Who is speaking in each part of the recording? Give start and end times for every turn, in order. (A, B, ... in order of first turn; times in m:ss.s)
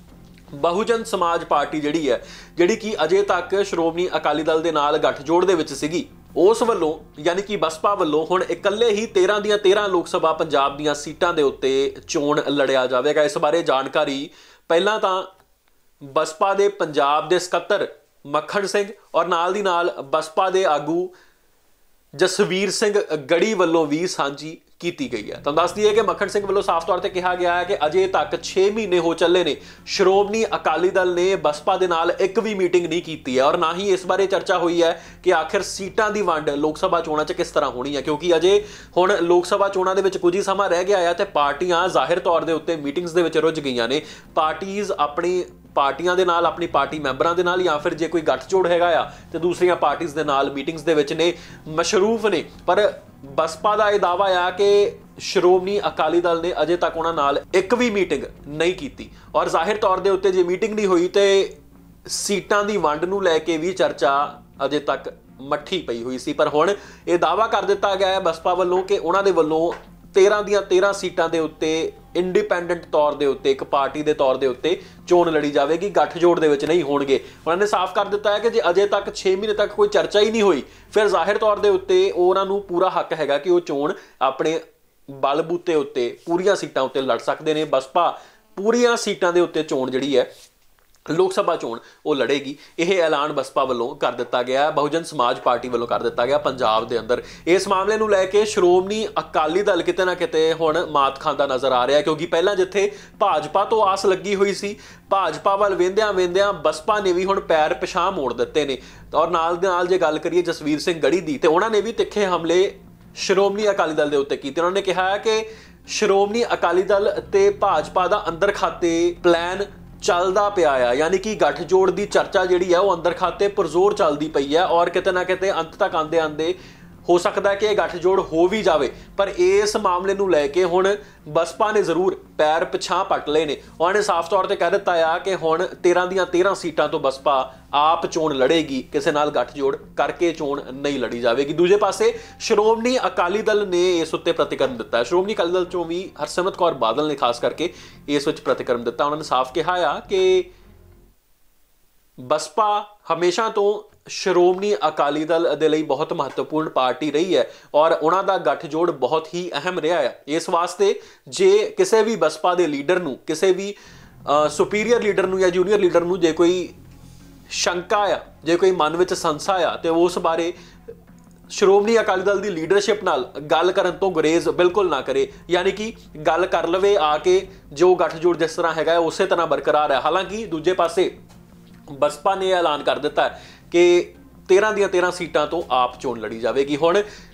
0:00.5-0:15.3 A
0:16.0-0:21.1 A
0:22.1-1:01.6 A
1:02.1-1:24.6 A
1:25.1-1:30.3 A
1:31.1-2:30.5 A
2:32.2-2:46.8 A
2:47.5-2:50.5 A
2:51.5-3:01.1 A
3:01.9-3:07.0 A